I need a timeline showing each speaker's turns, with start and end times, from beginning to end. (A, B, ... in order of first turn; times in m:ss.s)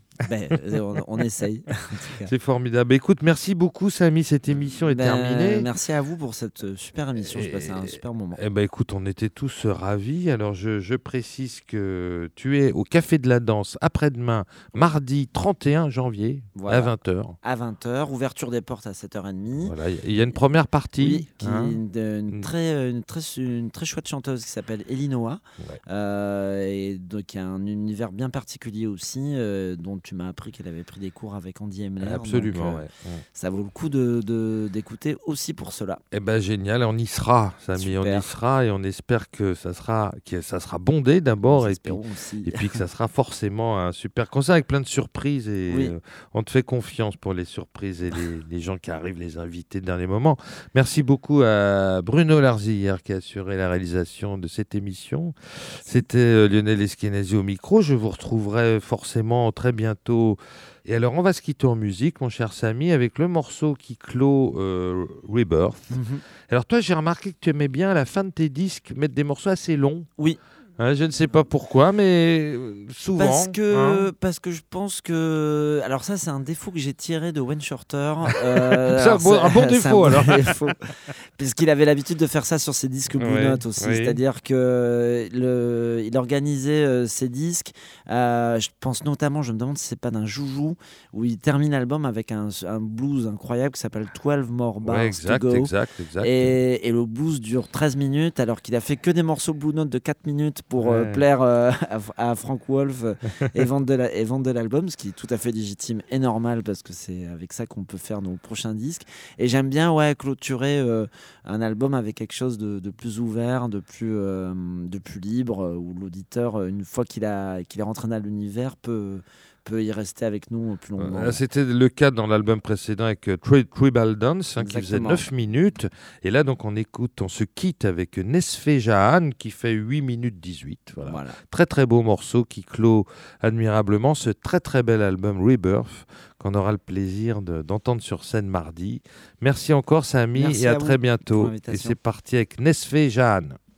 0:00.2-0:02.3 A
0:02.2-0:05.7 B
0:04.9-0:08.4 A
0:07.2-0:17.4 B
0:16.6-0:19.8 A
0:19.6-0:21.8 B
0:21.0-0:32.8 A
0:32.0-0:33.2 B
0:33.4-0:36.0 A
0:36.1-1:10.1 B
0:37.8-0:38.3 A
0:41.5-0:42.8 A
0:45.7-0:46.0 A
1:05.9-1:06.2 A
1:10.8-1:14.1 B
1:13.2-2:01.4 A
1:18.3-1:20.7 B
1:23.2-1:24.2 B
1:34.8-1:36.6 B
1:40.8-1:41.2 B
2:01.0-2:23.6 B
2:04.6-2:05.3 A
2:11.0-2:11.4 A
2:20.3-2:22.0 A